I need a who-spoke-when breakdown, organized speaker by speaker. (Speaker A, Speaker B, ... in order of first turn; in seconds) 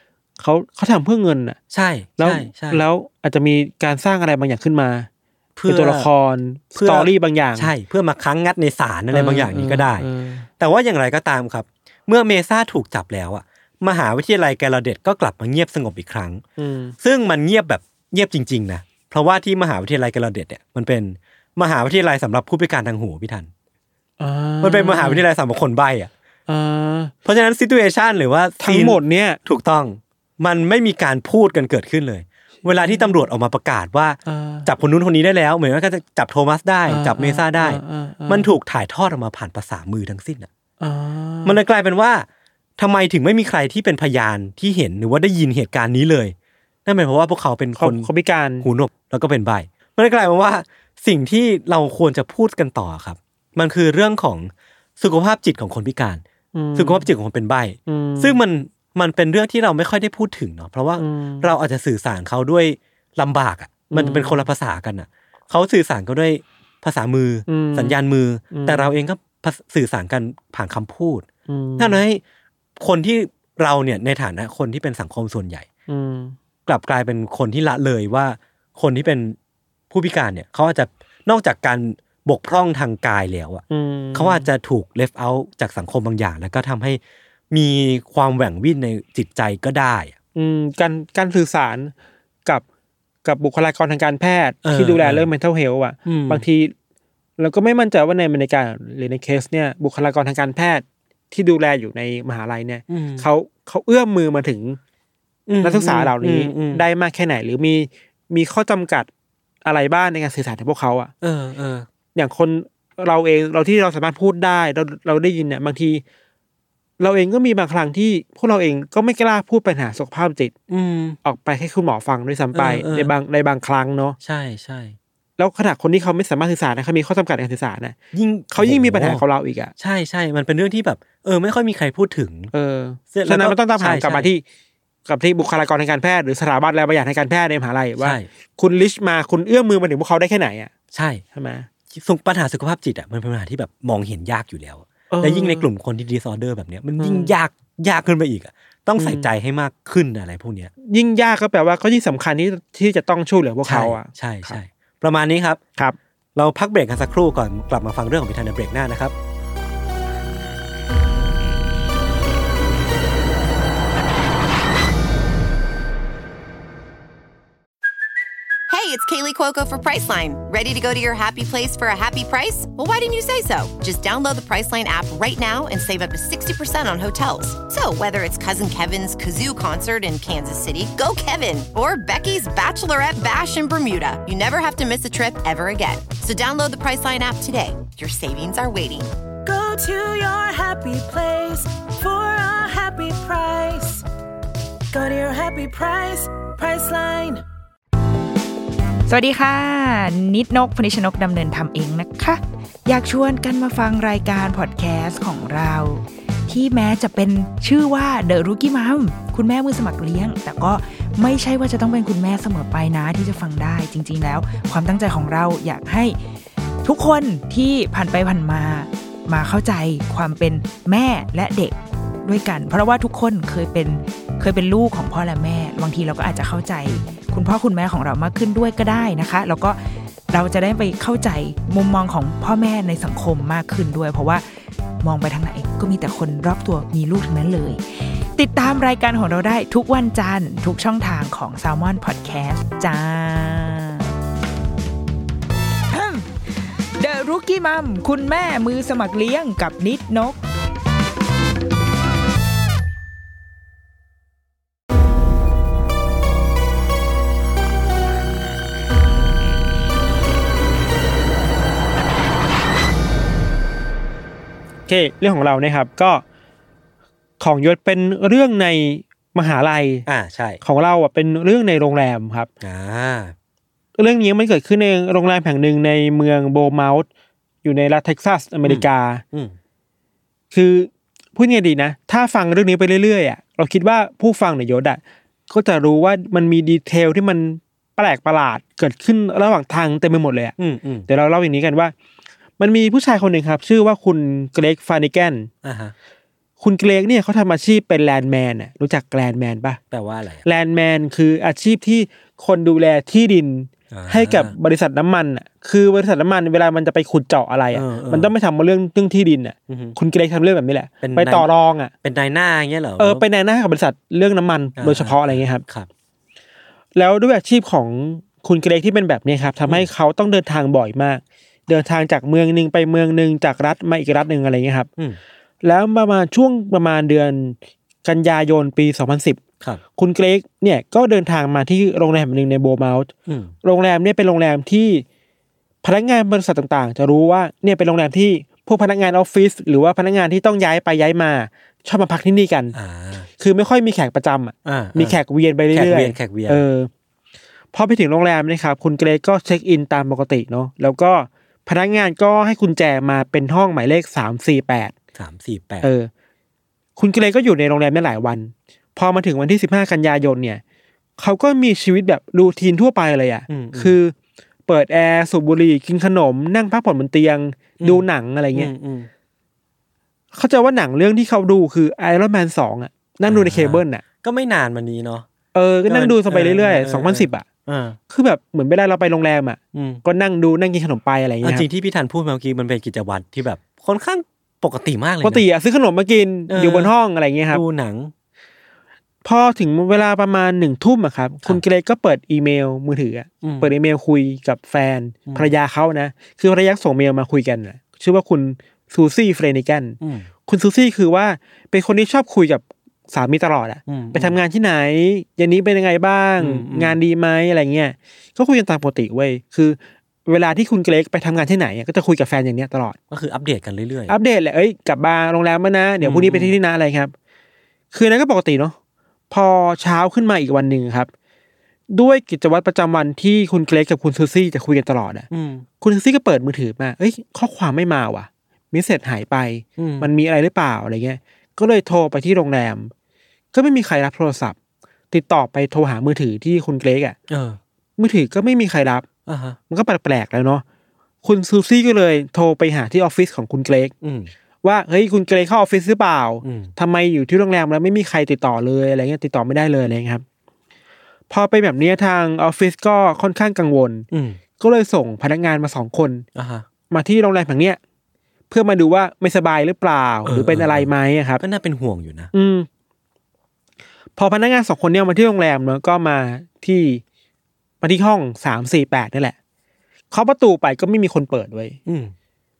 Speaker A: 0.4-1.6, 2.2-5.1, 5.7-7.7, 9.1-10.5, 16.6-16.9, 24.2-25.2, 26.5-27.1, 28.6-29.4, 32.6-33.2, 34.2-34.7, 36.9-38.5, 40.8-41.6, 47.8-48.6, 56.5-57.1, 57.9-58.4, 61.0-61.5, 63.9-64.4, 67.5-68.0, 68.5-68.9, 71.5-72.0, 75.9-76.3, 83.7-84.5, 90.3-91.9, 93.2-96.7, 97.4-104.8, 105.6-109.1, 109.6-111.1, 112.1-116.0, 117.0-120.5, 121.2-124.2, 125.4-128.0, 128.5-129.7, 132.5-134.4, 135.1-140.7, 141.3-141.7, 145.1-145.7, 147.0-147.3, 149.0-149.3, 150.9-154.6, 264.9-266.2, 267.4-270.1, 270.6-272.5, 274.0-277.1, 277.6-279.2, 280.5-290.5, 291.1-291.9, 292.6-295.5, 296.6-299.8, 300.4-311.9, 313.0-315.6, 316.9-324.9, 325.6-329.4, 329.9-333.1, 333.6-335.0, 335.8-342.7, 343.4-346.9, 347.7-354.9, 355.8-356.1, 357.0-360.6, 361.2-364.1, 364.7-368.7, 370.3-374.0, 375.5-377.4, 378.1-381.6, 385.2-387.6, 389.2-413.0, 414.1-417.1, 417.9-418.7, 419.3-421.1, 421.9-425.3, 425.8-432.9, 433.5-434.6, 435.1-437.2, 438.0-439.1, 439.7-440.6, 441.2-443.9, 444.6-450.2, 451.3-454.1, 454.6-456.2, 456.9-457.8, 458.5-461.4, 462.3-462.7, 464.2-467.0, 467.8-469.3, 470.1-471.8
Speaker B: 1.7-2.8, 5.5-6.1, 6.8-16.4, 17.0-23.5, 24.6-26.1, 27.2-40.5, 41.4-42.2, 42.8-46.3, 46.9-48.1, 48.6-56.2, 56.7-71.2, 71.8-72.2, 72.8-75.7, 76.7-79.3, 79.9-90.1, 94.6-95.3, 96.0-96.4, 102.9-103.2, 105.5-106.8, 111.2-111.9, 120.7-121.2, 122.5-123.1, 124.2-125.0, 128.1-129.2, 129.8-132.5, 133.1-134.3, 138.0-138.3, 140.9-141.2, 141.9-150.7, 153.6-155.6, 156.3-159.1, 270.1-270.6, 272.6-273.3, 278.6-279.6, 290.6-291.1, 295.6-295.9, 299.9-300.4, 303.9-304.5, 307.7-308.3, 309.7-309.9, 311.0-311.5, 312.0-313.2, 314.8-315.9, 333.3-333.5, 342.7-343.3, 344.6-346.6, 355.1-355.9, 363.5-364.0, 367.8-369.1, 373.2-375.3, 375.9-378.0, 379.7-380.0, 381.4-385.4, 386.5-386.9, 387.5-388.1, 393.4-393.7, 395.3-395.5, 400.0-400.3, 403.9-404.4, 406.4-407.0, 413.1-414.1, 416.0-416.6, 425.3-425.6, 429.8-430.1, 437.3-437.6, 439.2-439.6, 444.0-444.3, 446.4-446.7, 454.1-454.4, 456.3-456.6, 460.2-462.3, 471.9-472.1
Speaker C: 168.7-189.1
Speaker D: 189.4-194.0, 194.9-197.4
Speaker E: 199.1-216.2, 216.8-229.8, 230.3-234.4, 235.0-244.1, 245.9-246.3, 247.0-250.4